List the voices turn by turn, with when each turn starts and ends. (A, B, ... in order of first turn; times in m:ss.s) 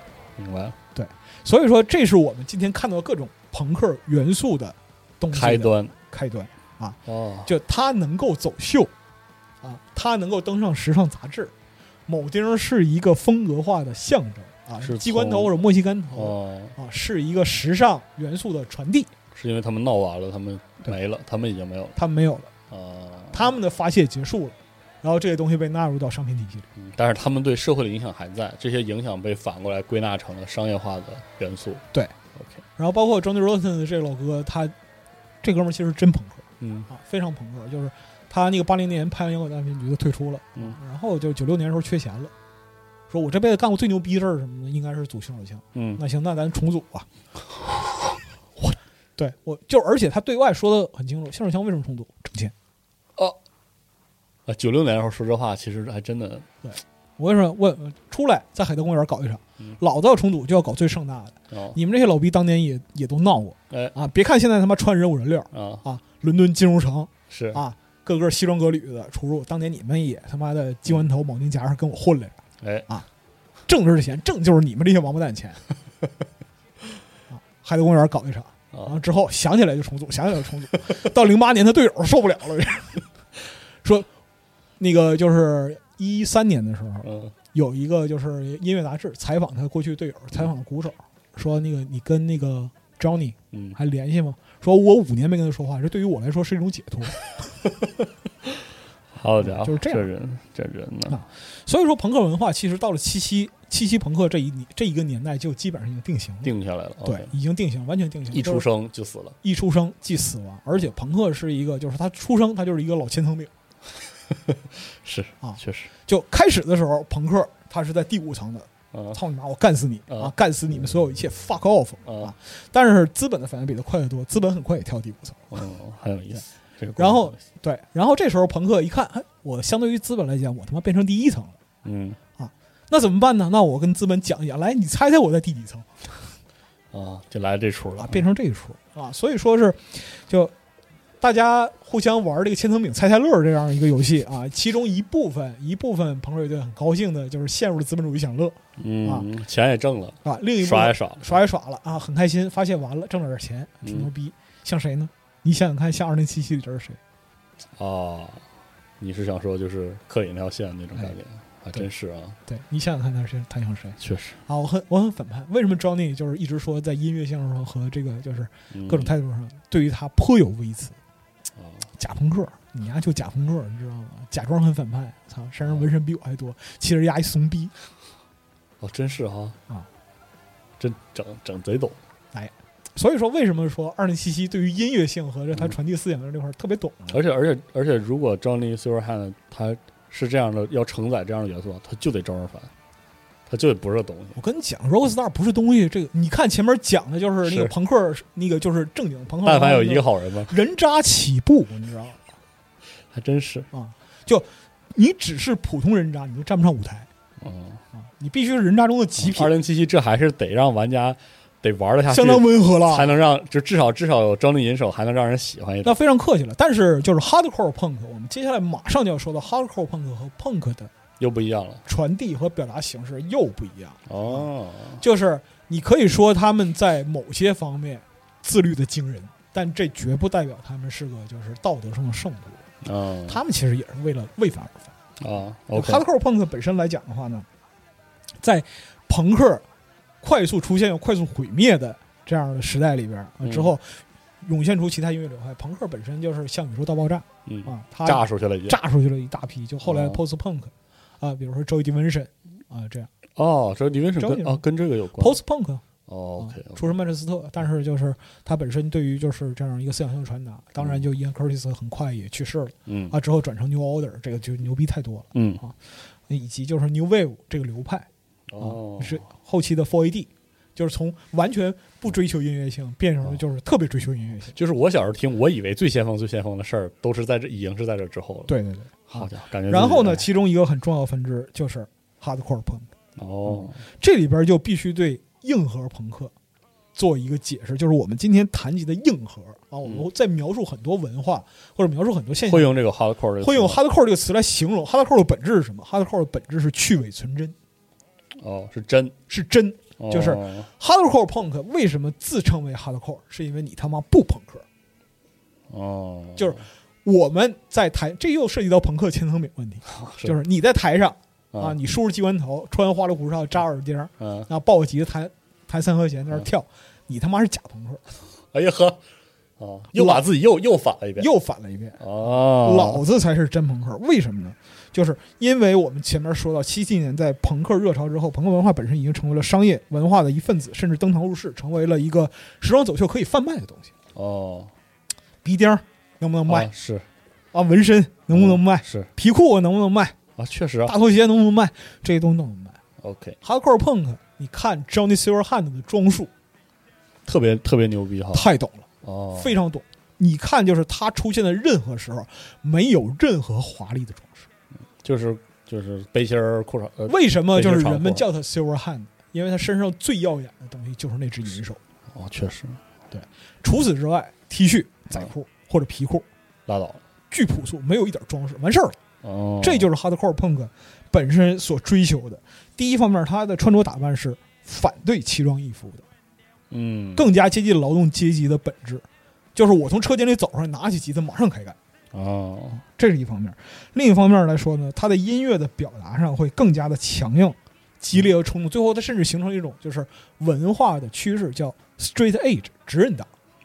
0:00.4-0:00.8 A
0:00.9-0:08.9 B
0:05.3-0:05.9 A
0:07.0-0:07.5 A
0:09.6-0:11.5 B
0:12.1-0:19.1 B
0:14.8-0:15.6 A
0:16.1-0:16.8 A
0:19.3-0:22.0 A
0:22.0-0:22.5 B
0:22.7-0:23.5 A
0:23.3-0:26.7 B
0:26.7-0:31.8 A
0:32.4-0:32.6 A
0:32.8-0:34.7 B
0:35.4-0:42.3 B
0:36.6-0:36.9 A
0:43.1-0:47.1 B
0:45.7-0:46.0 A
0:48.6-0:52.5 B
0:54.4-0:56.5 A
0:56.6-1:13.1 B
1:01.5-1:01.8 A
1:03.7-1:03.9 A
1:05.5-1:05.8 A
1:07.3-1:07.6 A
1:12.6-1:12.9 A
1:13.7-1:15.6 B
1:17.3-1:23.0 B
1:24.8-1:37.2 B
1:27.0-1:27.3 A
1:33.5-1:33.8 A
1:38.4-1:41.2 A
1:39.4-1:40.1 B
1:41.1-1:46.5 B
1:46.4-1:47.3 A
1:47.0-1:48.6 B
1:48.3-1:49.4 A
1:49.4-1:53.5 B
1:54.3-1:55.9 A
1:55.4-2:05.6 B
1:58.9-1:59.2 A
2:02.0-2:02.3 A
2:05.5-2:07.4 A
2:07.0-2:11.6 B
2:11.8-2:12.2 A
2:12.4-2:16.2 B
2:16.9-2:18.2 A
2:18.0-2:20.5 B
2:21.2-2:29.3 B
2:28.8-2:31.4 A
2:30.2-2:37.0 B
2:33.8-2:34.1 A
2:37.8-2:38.4 A
2:39.0-2:42.4 A
2:42.5-2:51.0 B
2:44.0-2:44.4 A
2:48.7-2:49.1 A
2:51.6-2:51.9 A
2:52.0-2:57.7 B
2:58.8-2:59.6 A
3:00.8-3:02.0 A
3:02.3-3:07.2 B
3:07.1-3:12.7 A
3:13.5-3:14.4 A
3:14.4-3:22.2 B
3:17.4-3:17.7 A
3:19.4-3:20.5 A
3:23.1-3:23.7 A
3:23.7-3:27.1 B
3:27.4-3:27.8 A
3:27.9-3:29.5 B
3:29.2-3:36.0 A
3:32.1-3:33.2 B
3:35.8-3:40.9 B
3:41.2-3:41.8 A
3:41.8-3:44.5 B
3:44.1-3:45.0 A
3:45.0-3:52.6 B
3:52.8-3:53.4 A
3:53.3-3:54.9 B
3:55.2-3:56.0 A
3:55.7-3:57.4 B
3:58.4-3:59.6 B
4:00.2-4:13.1 B
4:03.4-4:03.7 A
4:07.4-4:08.8 A
4:09.8-4:10.2 A
4:13.4-4:15.4 A
4:14.2-4:14.6 B
4:15.2-4:15.8 B
4:16.1-4:16.9 A
4:16.4-4:25.8 B
4:22.9-4:23.2 A
4:25.3-4:25.6 A
4:26.3-4:28.1 B
4:28.5-4:29.2 A
4:28.6-4:34.6 B
4:34.5-4:38.5 A
4:38.5-4:42.9 B
4:39.1-4:40.3 A
4:43.2-4:43.8 A
4:43.4-4:46.3 B
4:47.0-4:52.7 B
4:52.4-4:53.8 A
4:53.4-4:57.5 B
4:58.4-4:59.2 A
4:59.3-5:04.6 B
5:00.0-5:00.7 A
5:05.7-5:06.6 A
5:06.4-5:18.0 B
5:09.8-5:10.4 A
5:14.2-5:14.5 A
5:18.5-5:19.0 A
5:19.6-5:21.3 A
5:19.9-5:20.2 B
5:21.2-5:33.9 B
5:22.0-5:23.0 A
5:34.1-5:34.7 A
5:35.4-5:36.7 B
5:36.5-5:37.1 A
5:37.5-5:40.2 B
5:38.3-5:39.1 A
5:40.4-5:40.9 A
5:40.8-5:42.8 B
5:43.0-5:43.4 A
5:43.4-5:46.3 B
5:47.2-5:48.5 A
5:48.3-5:54.5 B
5:49.0-5:49.6 A
5:55.0-5:58.2 A
5:57.1-6:01.8 B
6:02.1-6:02.8 A
6:03.1-6:06.2 B
6:06.7-6:07.0 A
6:07.3-6:09.0 B
6:09.2-6:09.9 A
6:09.6-6:16.0 B
6:16.7-6:17.3 A
6:17.2-6:21.8 B
6:22.1-6:22.8 A
6:23.0-6:33.3 B